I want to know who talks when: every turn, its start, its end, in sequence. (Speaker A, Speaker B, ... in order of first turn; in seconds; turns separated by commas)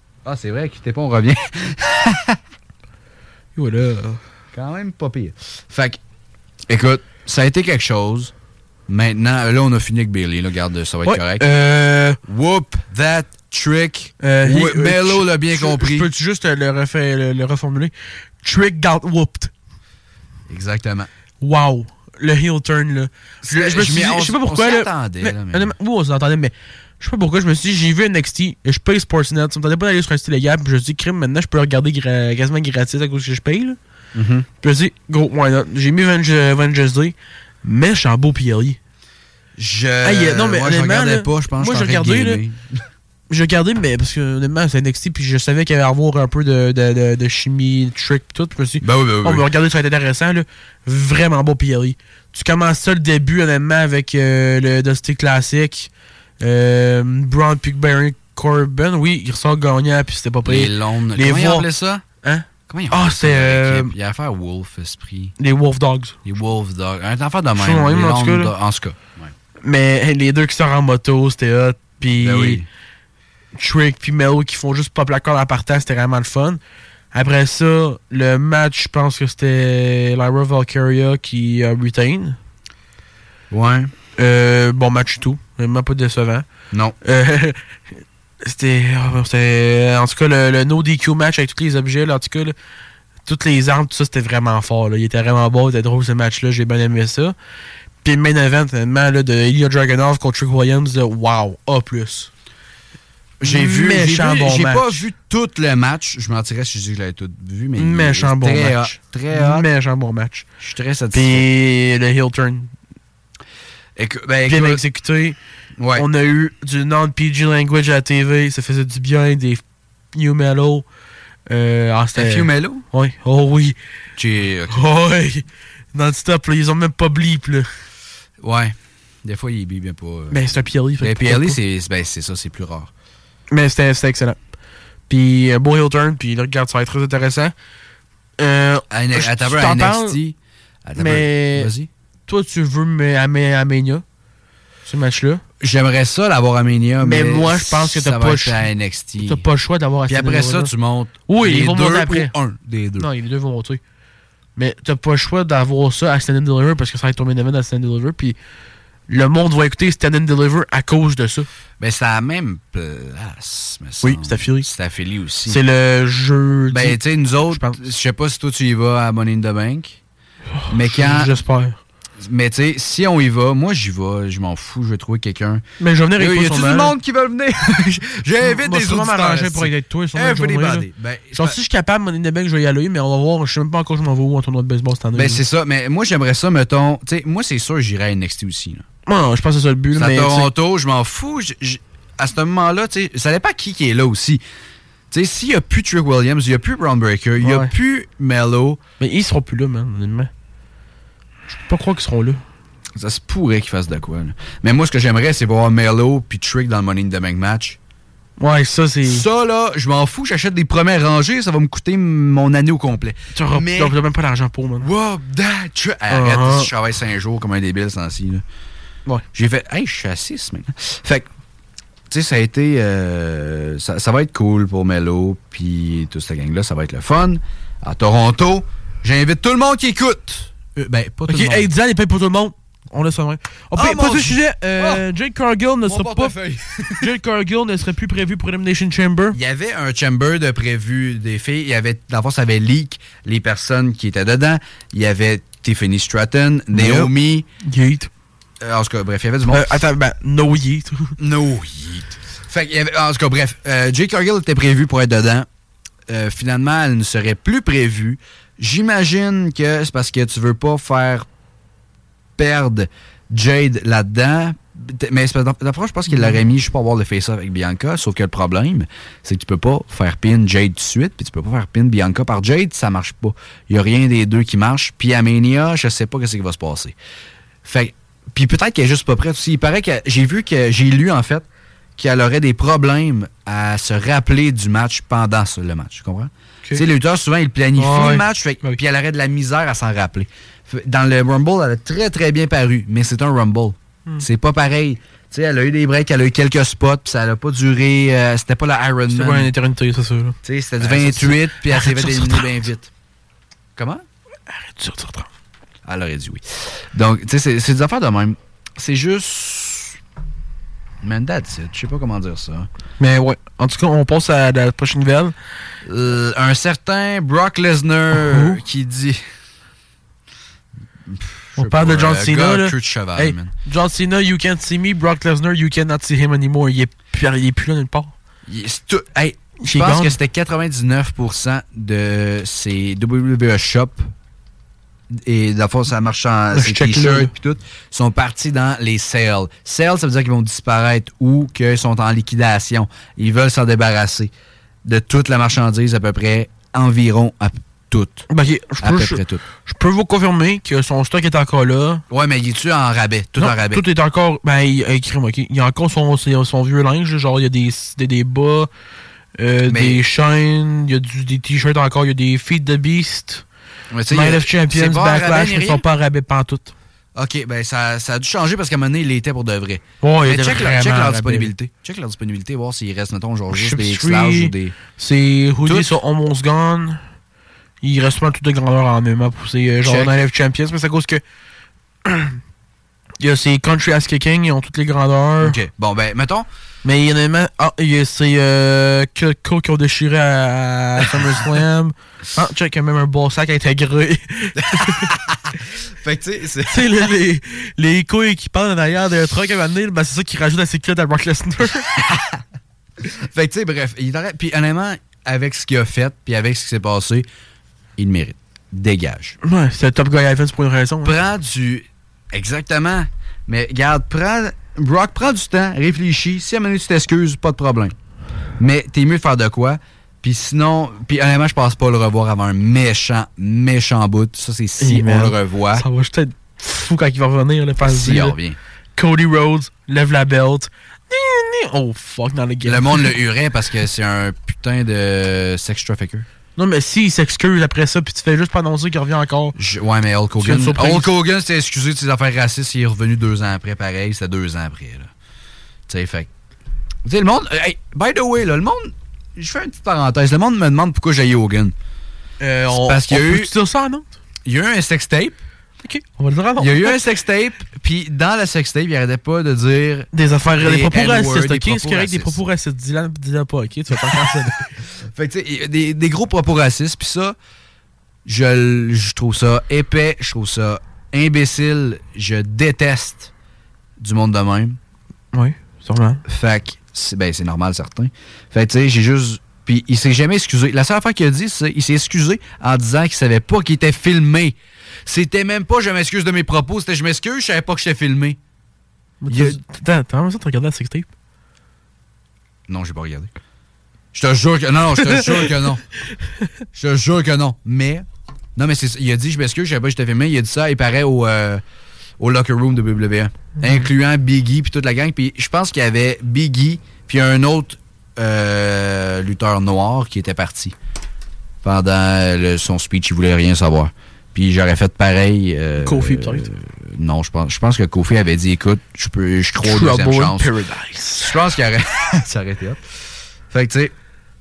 Speaker A: 0.2-2.4, Speaker B: 3.6-4.2, Speaker A: 4.5-6.0, Speaker A: 6.7-8.3, Speaker A: 8.9-11.4, Speaker B: 11.1-12.2, Speaker A: 12.2-16.1, Speaker B: 14.2-19.5, Speaker A: 20.5-21.1, Speaker B: 21.4-33.8, Speaker A: 23.4-25.7, Speaker A: 34.1-34.5, Speaker B: 34.6-38.8, Speaker A: 39.6-42.6, Speaker B: 40.0-42.4, Speaker B: 43.3-55.9, Speaker A: 48.8-49.5, Speaker B: 56.4-61.7, Speaker A: 60.5-62.0, Speaker B: 62.2-63.9, Speaker A: 62.7-65.3, Speaker B: 65.4-66.2, Speaker A: 66.2-69.3, Speaker B: 67.6-68.5, Speaker B: 69.6-72.6, Speaker A: 72.2-72.7, Speaker B: 73.5-76.6, Speaker B: 77.1-82.4, Speaker A: 83.5-83.9, Speaker B: 84.2-86.5, Speaker B: 87.0-87.6, Speaker B: 88.4-92.5, Speaker B: 93.3-97.3, Speaker B: 98.0-102.3, Speaker A: 103.4-109.7, Speaker B: 103.4-105.0, Speaker B: 107.8-110.5, Speaker A: 110.6-111.5, Speaker B: 111.1-112.7, Speaker A: 114.0-114.8, Speaker B: 114.5-115.4, Speaker A: 115.8-116.1, Speaker B: 116.0-119.6, Speaker B: 120.1-120.9, Speaker B: 121.5-123.8, Speaker A: 122.2-122.8, Speaker A: 124.2-124.8, Speaker B: 124.7-127.7, Speaker A: 128.4-130.4, Speaker B: 130.3-131.6, Speaker A: 131.0-132.9, Speaker B: 133.5-134.4, Speaker B: 135.1-137.5, Speaker B: 138.4-140.2, Speaker A: 138.9-141.9, Speaker B: 141.0-141.7, Speaker B: 142.3-144.0, Speaker B: 144.9-145.4, Speaker A: 145.6-149.4, Speaker B: 147.0-148.6, Speaker B: 149.2-150.7, Speaker A: 150.1-153.1, Speaker B: 151.3-152.3, Speaker B: 153.0-153.8, Speaker B: 154.6-158.4, Speaker B: 159.1-161.5, Speaker A: 161.8-165.6, Speaker B: 164.0-164.7, Speaker B: 165.5-167.0, Speaker A: 166.7-170.0, Speaker B: 167.5-167.8, Speaker B: 170.6-171.8, Speaker A: 170.7-171.3, Speaker A: 172.2-175.6, Speaker B: 175.8-176.9, Speaker A: 176.2-181.6, Speaker B: 178.4-185.4, Speaker A: 185.2-188.8, Speaker B: 189.1-190.5, Speaker A: 189.9-194.4, Speaker A: 195.1-198.8, Speaker B: 197.4-197.7, Speaker B: 199.0-200.3, Speaker B: 201.5-202.4, Speaker A: 202.9-207.8, Speaker B: 208.4-209.2, Speaker A: 209.1-213.9, Speaker B: 213.3-214.9, Speaker A: 214.8-218.4, Speaker B: 216.1-216.7, Speaker A: 219.3-221.3, Speaker A: 222.1-231.7, Speaker B: 231.3-236.3, Speaker A: 233.8-235.0, Speaker A: 235.9-237.1, Speaker B: 237.0-239.4, Speaker A: 239.3-247.5, Speaker B: 246.7-248.1, Speaker A: 248.6-249.7, Speaker B: 249.5-251.1, Speaker A: 251.2-255.5, Speaker A: 256.1-261.3, Speaker A: 262.4-277.0, Speaker B: 266.1-266.4, Speaker A: 277.6-281.5, Speaker A: 282.0-299.5, Speaker B: 287.8-288.8, Speaker B: 299.1-302.6, Speaker A: 300.4-302.9, Speaker A: 303.8-304.1, Speaker B: 304.5-305.3, Speaker A: 305.9-310.0, Speaker A: 311.0-312.7, Speaker B: 313.0-315.4, Speaker A: 315.9-319.2, Speaker B: 318.1-318.6, Speaker A: 321.1-323.5, Speaker B: 321.6-328.1, Speaker A: 328.5-334.1, Speaker B: 329.6-330.2, Speaker A: 335.1-344.3, Speaker B: 336.5-337.3, Speaker A: 344.9-348.3, Speaker B: 348.3-352.0, Speaker A: 348.8-349.4, Speaker A: 352.1-353.8, Speaker B: 353.4-358.7, Speaker B: 359.4-363.4, Speaker A: 359.7-360.0, Speaker A: 363.9-365.8, Speaker B: 364.1-366.7, Speaker A: 367.1-374.8, Speaker B: 370.0-371.5, Speaker B: 373.5-377.0, Speaker A: 375.6-376.0, Speaker B: 377.8-381.2, Speaker A: 379.8-380.1, Speaker B: 382.1-382.4, Speaker B: 383.2-385.6, Speaker A: 385.4-386.5, Speaker B: 386.8-395.1, Speaker A: 394.6-396.9, Speaker B: 396.7-401.9, Speaker A: 402.0-402.4, Speaker A: 403.1-407.3, Speaker A: 408.0-409.4, Speaker B: 409.4-411.1, Speaker A: 411.0-417.9, Speaker A: 418.6-425.9, Speaker B: 424.8-428.4, Speaker A: 427.8-428.6, Speaker B: 429.0-433.1, Speaker A: 432.6-436.3, Speaker B: 436.6-439.6, Speaker A: 439.6-445.1, Speaker B: 440.4-441.1, Speaker A: 445.9-446.3, Speaker A: 447.1-451.8, Speaker B: 452.4-454.1, Speaker A: 452.7-453.5, Speaker A: 454.4-455.4, Speaker B: 455.8-457.0, Speaker A: 456.6-462.4, Speaker B: 460.1-464.6, Speaker A: 465.1-467.4, Speaker A: 468.3-473.3, Speaker A: 474.0-474.8, Speaker B: 475.3-476.2, Speaker A: 476.3-488.4, Speaker B: 489.2-491.1, Speaker A: 489.3-489.6, Speaker A: 492.7-493.3, Speaker A: 494.1-495.8, Speaker B: 495.1-495.5, Speaker A: 496.8-501.6, Speaker A: 502.2-510.7, Speaker A: 511.6-520.5, Speaker B: 515.8-516.5, Speaker B: 519.6-521.4, Speaker A: 521.2-522.8, Speaker A: 523.5-523.9